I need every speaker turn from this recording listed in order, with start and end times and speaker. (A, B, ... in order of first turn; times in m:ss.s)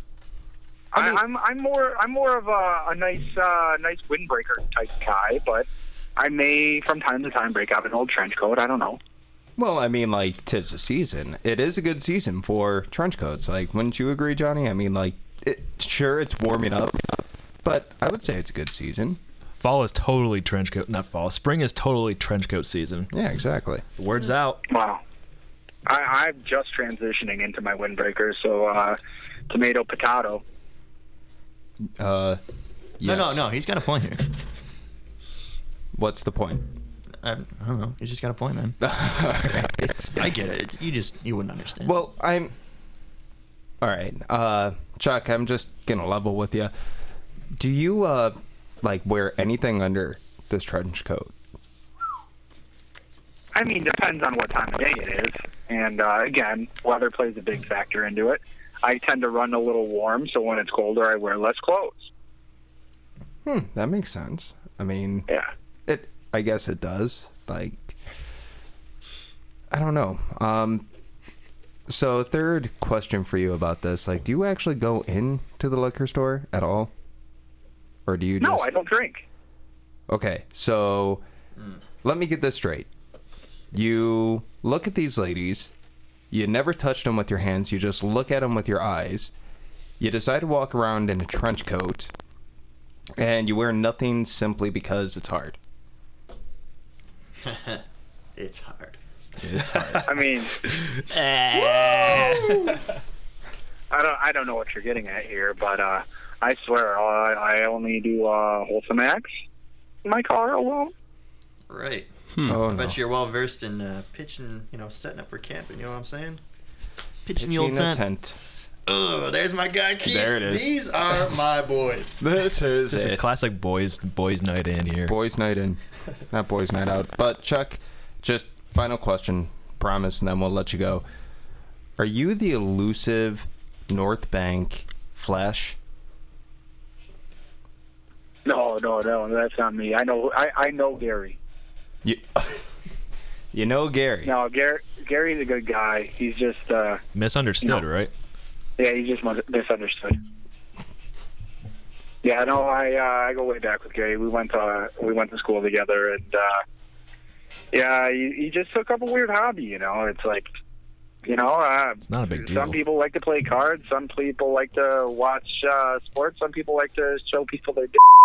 0:00.9-0:09.0 A
0:09.6-0:17.0 B
0:17.6-0:19.2 B
0:19.6-0:23.1 C
0:23.1-0:23.8 B
0:24.0-0:24.6 C
0:24.7-0:25.0 A
0:25.8-0:29.0 A
0:29.5-0:30.4 A
0:31.8-0:32.4 B
0:33.0-0:33.5 B
0:33.0-0:34.3 D
0:35.9-0:36.7 B
0:37.2-0:38.8 D
0:38.8-0:40.3 B
0:39.6-0:42.0 D
0:41.8-0:42.5 B
0:43.8-0:46.7 B
0:47.5-0:51.3 B
0:53.5-1:02.1 A
1:03.4-1:05.3 B
1:05.8-1:08.0 B
1:09.7-1:10.8 B
1:11.9-1:16.9 B
1:18.0-1:18.7 B
1:18.4-1:19.2 A
1:20.1-1:21.2 B
1:22.0-1:22.9 B
1:23.7-1:25.7 B
1:26.3-1:29.3 B
1:30.0-1:32.1 B
1:33.2-1:35.6 B
1:37.4-1:37.8 D
1:38.4-1:39.0 D
1:39.4-1:40.1 C
1:39.6-1:39.9 B
1:39.7-1:40.0 D
1:40.0-1:40.5 A
1:41.1-1:42.8 D
1:43.9-1:49.3 A
1:50.0-1:50.9 A
1:51.7-1:56.4 D
1:52.4-1:53.0 B
1:57.2-1:58.0 D
1:57.4-1:58.4 B
1:58.9-2:02.2 D
2:00.0-2:01.3 B
2:02.2-2:03.3 B
2:02.9-2:05.1 C
2:05.0-2:11.0 B
2:12.0-2:15.8 B
2:18.4-2:21.4 A
2:22.0-2:22.6 B
2:23.5-2:24.3 B
2:24.2-2:27.0 A
2:27.1-2:28.1 C
2:28.8-2:30.2 A
2:32.2-2:36.6 A
2:37.7-2:40.5 A
2:41.2-2:48.0 A
2:42.1-2:42.8 C